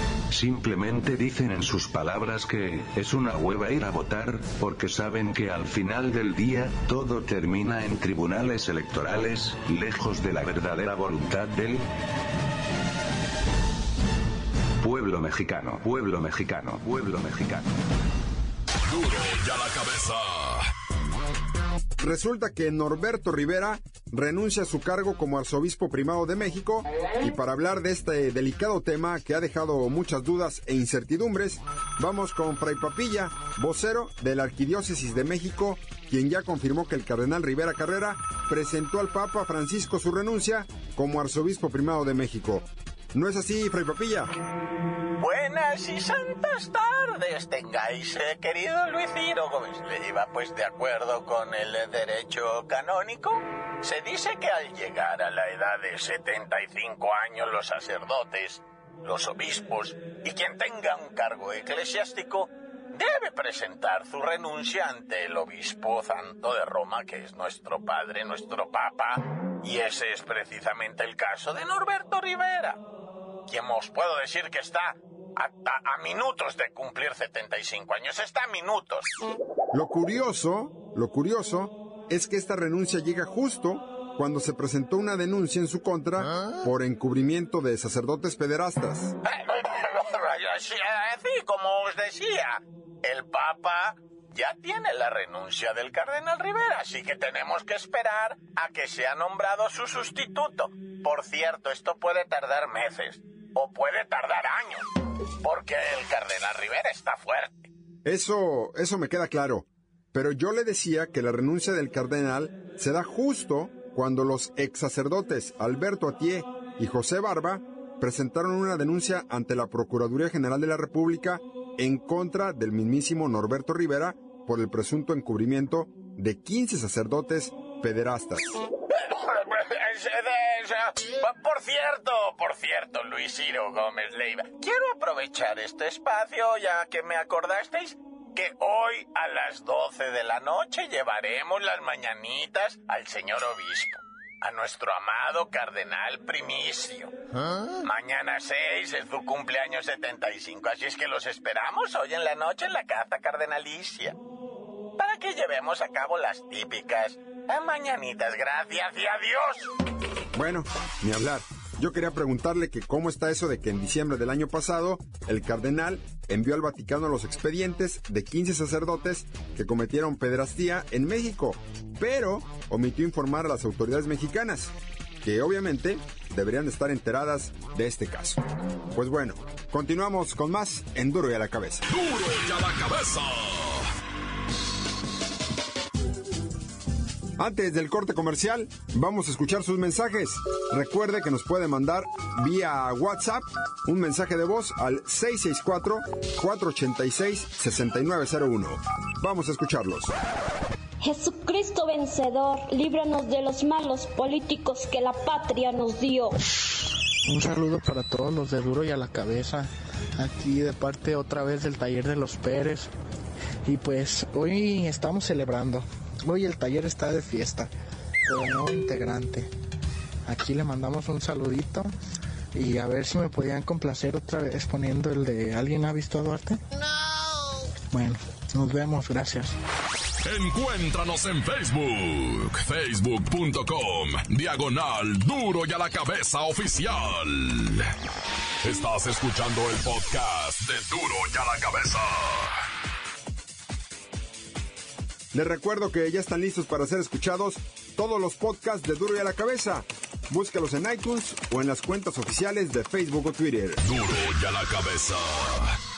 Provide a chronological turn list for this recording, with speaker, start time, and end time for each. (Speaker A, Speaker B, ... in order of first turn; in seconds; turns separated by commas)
Speaker A: 0.3-11.8, Speaker A: 14.8-17.7, Speaker B: 18.9-20.7, Speaker C: 22.0-44.3, Speaker D: 45.2-72.8, Speaker D: 73.5-79.1, Speaker C: 79.7-89.1, Speaker D: 89.2-104.9, Speaker D: 105.4-107.7, Speaker C: 108.0-128.5, Speaker D: 128.9-147.1, Speaker D: 147.8-154.2, Speaker D: 155.0-159.7, Speaker C: 160.3-178.4, Speaker C: 178.9-181.8, Speaker B: 181.9-183.9, Speaker C: 187.4-200.1, Speaker E: 201.0-206.3, Speaker F: 207.3-212.9, Speaker F: 213.7-217.7, Speaker F: 218.2-219.5, Speaker F: 220.2-221.9, Speaker F: 222.5-226.6, Speaker F: 227.9-229.5, Speaker B: 230.2-237.9, Speaker B: 238.6-242.5, Speaker C: 245.3-253.8, Speaker B: 253.8-255.8